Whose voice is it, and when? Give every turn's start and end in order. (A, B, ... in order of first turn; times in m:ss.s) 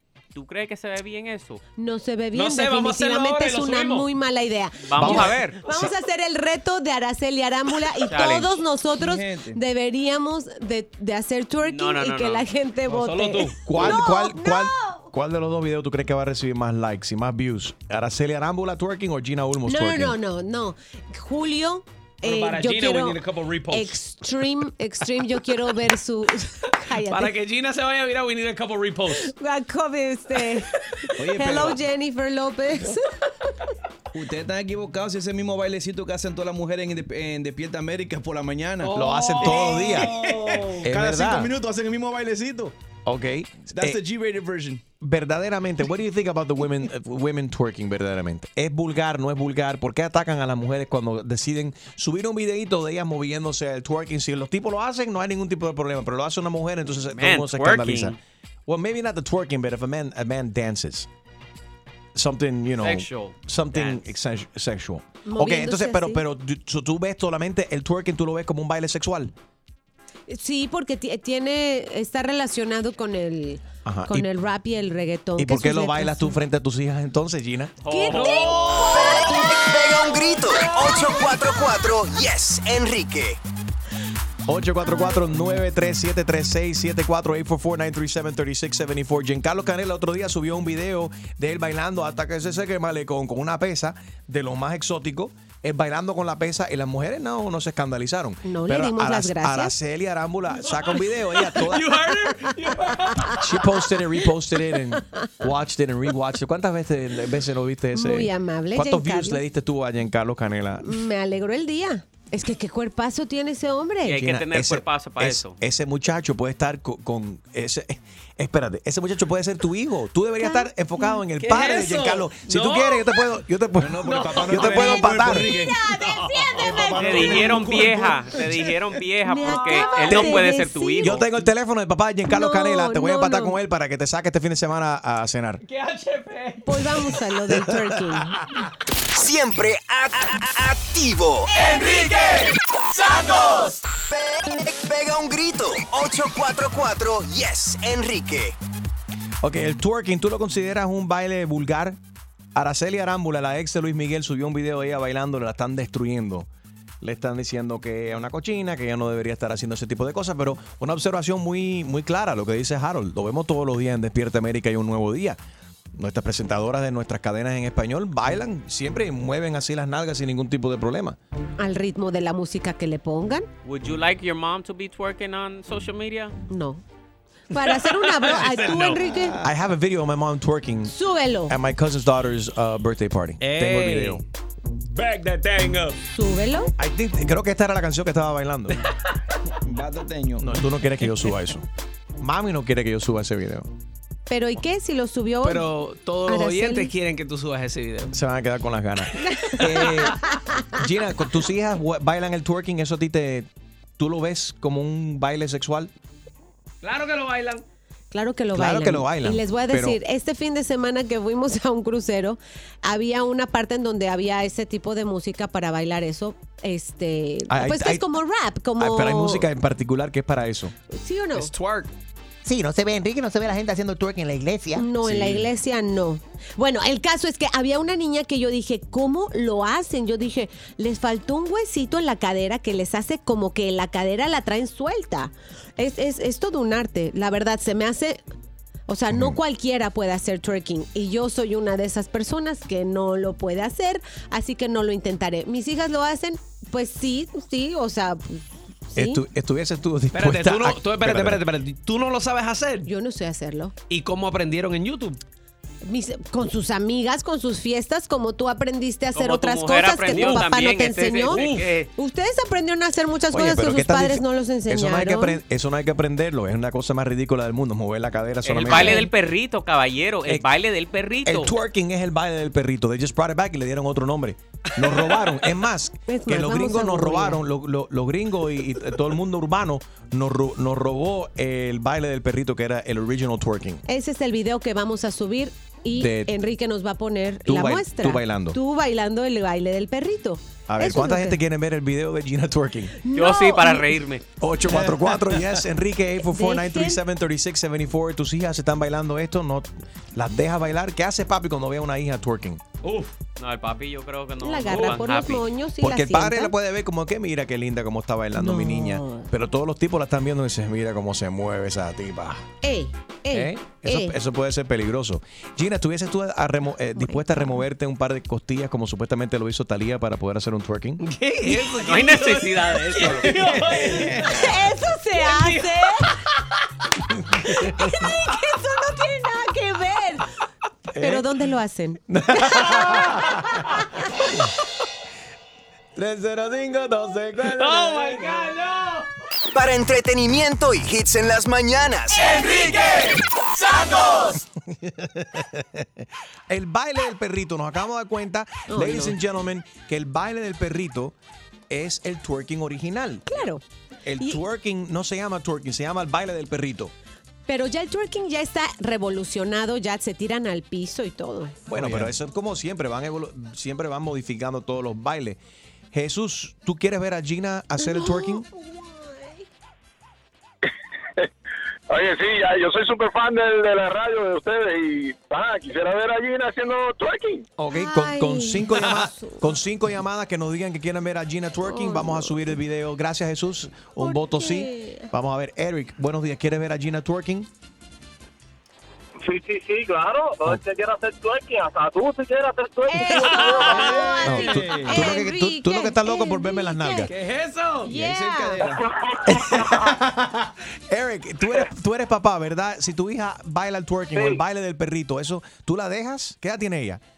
0:00.4-0:01.6 A
0:01.8-0:15.0 B
0:02.3-0:04.1 C
0:04.8-0:05.6 A
0:05.0-0:05.7 D
0:08.1-0:08.6 A
0:09.0-0:09.6 E
0:11.6-0:12.5 A
0:12.9-0:13.9 C
0:13.6-0:20.2 D
0:19.6-0:27.4 B
0:22.2-0:24.0 C
0:26.9-0:29.3 C
0:29.1-0:33.1 B
0:31.2-0:31.8 E
0:34.1-0:39.0 E
0:38.8-0:40.9 C
0:38.9-0:40.2 D
0:40.0-0:42.7 E
0:40.8-0:41.5 D
0:43.1-0:44.0 D
0:43.7-0:44.8 E
0:45.0-1:01.1 D
0:57.1-0:58.2 A
1:02.2-1:09.3 D
1:02.8-1:04.1 A
1:05.3-1:06.2 B
1:10.3-1:16.4 B
1:13.8-1:14.3 D
1:15.4-1:17.8 D
1:17.8-1:18.7 A
1:17.9-1:20.2 B
1:18.1-1:19.0 C
1:18.9-1:23.4 F
1:20.7-1:21.1 B
1:24.5-1:42.0 D
1:24.8-1:25.2 B
1:38.5-1:39.7 B
1:40.6-1:43.5 C
1:43.4-1:50.9 D
1:47.9-1:49.4 B
1:50.8-1:54.2 B
1:54.0-1:55.6 A
1:54.1-2:05.5 D
2:00.4-2:01.2 B
2:01.4-2:03.1 C
2:03.8-2:05.8 E
2:04.0-2:07.4 C
2:05.6-2:07.6 B
2:06.6-2:08.3 E
2:07.0-2:11.2 A
2:09.2-2:11.3 B
2:09.5-2:10.3 C
2:10.1-2:10.4 D
2:11.0-2:15.6 D
2:12.3-2:13.6 B
2:15.7-2:16.7 C
2:16.6-2:18.4 B
2:19.1-2:21.5 F
2:21.8-2:22.5 G
2:23.2-2:23.7 G
2:24.1-2:28.6 F
2:29.4-2:32.0 D
2:32.6-2:36.5 D
2:37.0-2:45.4 D
2:46.0-2:51.2 D
2:51.6-2:53.5 B
2:53.6-2:56.4 A
2:56.5-2:56.8 B
2:57.5-2:59.4 B
2:57.5-2:59.4 C
2:59.4-3:00.9 D
3:00.9-3:01.6 B
3:01.5-3:04.2 D
3:03.4-3:04.2 C
3:04.9-3:06.0 C
3:06.1-3:06.7 B
3:06.8-3:08.8 D
3:09.6-3:10.5 E
3:10.4-3:11.7 D
3:12.2-3:13.7 D
3:14.3-3:15.7 B
3:15.4-3:18.1 C
3:16.3-3:16.9 B
3:18.1-3:20.2 D
3:19.3-3:19.6 B
3:19.6-3:20.0 C
3:20.8-3:25.9 D
3:26.8-3:27.6 C
3:28.1-3:39.5 B
3:28.5-3:30.0 D
3:37.5-3:38.1 D
3:38.8-3:40.7 D
3:40.9-3:41.5 B
3:41.4-3:41.9 C
3:42.4-3:44.9 H
3:44.8-3:58.2 B
3:45.0-3:45.5 D
3:58.9-4:09.2 B
3:59.1-3:59.4 D
4:09.0-4:11.4 D
4:10.1-4:12.9 C
4:12.9-4:13.8 B
4:13.9-4:15.2 C
4:15.8-4:25.4 B
4:19.2-4:21.9 A
4:20.1-4:20.5 C
4:21.2-4:21.7 C
4:23.3-4:29.1 D
4:28.4-4:31.5 A
4:28.7-4:29.1 B
4:31.2-4:43.8 D
4:36.1-4:37.4 B
4:43.9-4:51.4 B
4:46.0-4:46.3 D
4:47.5-4:48.6 D
4:50.7-4:53.0 D
4:53.0-4:54.0 B
4:53.1-4:54.2 A
4:54.4-5:02.6 D
4:56.2-4:57.0 B
5:02.8-5:03.1 C
5:03.4-5:05.4 A
5:04.4-5:06.5 B
5:04.7-5:05.0 C
5:05.8-5:12.5 D
5:08.4-5:09.3 B
5:12.6-5:14.1 B
5:13.3-5:21.0 D
5:17.0-5:17.5 B
5:21.0-5:24.5 C
5:21.8-5:23.4 A
5:24.2-5:26.1 B
5:25.2-5:25.7 C
5:27.7-5:30.3 B
5:30.9-5:31.3 D
5:31.0-5:33.0 B
5:32.1-5:33.6 D
5:36.0-5:38.5 D
5:37.4-5:39.1 C
5:39.5-5:42.3 F
5:42.4-5:44.3 G
5:44.7-5:51.2 D
5:48.7-5:49.2 B
5:51.7-5:53.4 D
5:53.3-5:53.6 B
5:54.0-5:56.9 D
5:57.5-6:01.6 B
6:01.7-6:02.1 E
6:01.7-6:05.4 D
6:05.9-6:08.5 D
6:07.8-6:09.5 B
6:11.9-6:17.5 I
6:17.6-6:27.5 D
6:17.7-6:19.5 B
6:21.6-6:22.6 B
6:24.0-6:25.1 B
6:29.2-6:34.2 I
6:32.9-6:37.1 B
6:33.1-6:34.7 C
6:33.7-6:34.9 E
6:34.2-6:37.1 D
6:37.1-6:38.0 C
6:37.8-6:38.7 B
6:37.9-6:38.8 E
6:38.6-6:39.8 I
6:39.3-6:47.0 D
6:44.1-6:44.4 I